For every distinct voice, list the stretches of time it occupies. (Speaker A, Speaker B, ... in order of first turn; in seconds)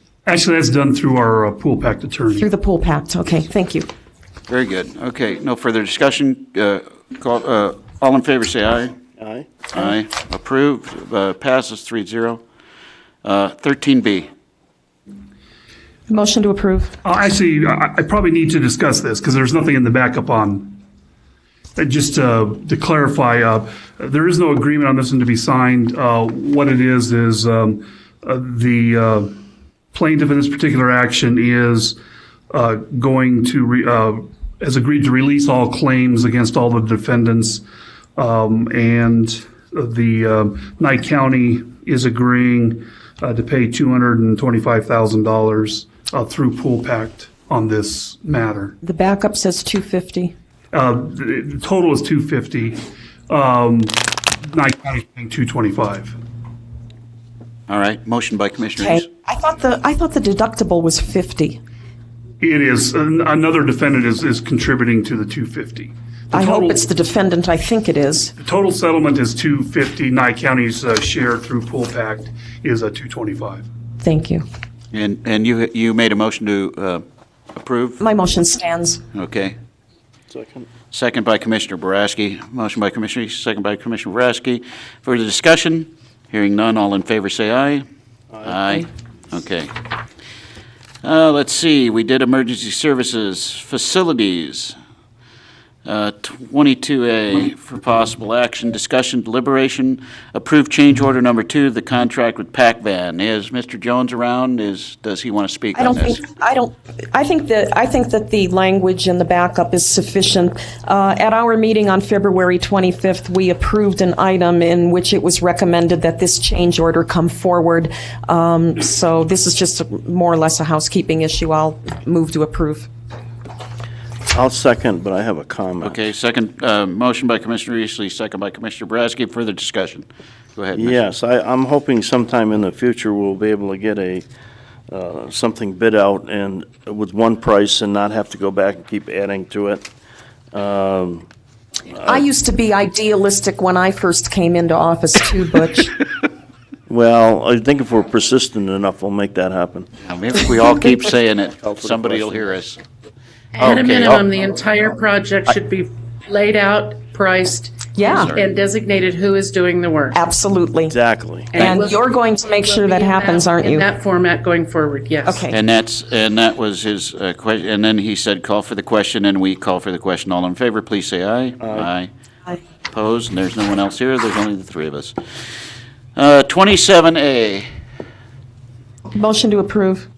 Speaker A: 0.2-2.5, 17.0-20.8, 21.8-29.4, 29.9-32.0, 32.5-37.6, 38.2-48.8, 50.7-56.2, 62.4-66.8, 68.4-73.7
Speaker B: 2.4-3.9, 16.1-17.0, 48.8-50.4, 58.8-61.6, 66.3-68.3, 74.0-74.5, 78.0-79.0, 105.8-122.9, 142.0-145.9, 157.9-158.3, 160.1-160.9, 161.6-163.9, 165.2-165.6, 179.1-180.1
Speaker C: 4.5-8.9, 9.7-12.4, 13.2-14.3, 57.7-59.1, 74.9-77.0, 77.5-78.0, 79.1-79.6, 80.9-87.8, 88.5-89.7, 91.0-94.8, 95.9-106.2, 125.8-131.0, 150.1-152.8, 153.6-154.3, 158.1-158.4, 165.5-172.1, 172.9-175.2, 176.2-177.7
Speaker D: 9.2-9.5, 80.3-80.7, 88.3-88.9, 124.3-126.0, 130.8-134.2, 134.9-139.9, 140.5-141.3, 146.9-149.9, 151.6-152.5, 160.9-161.6, 171.6-171.9
Speaker E: 153.6-160.2, 161.5-165.5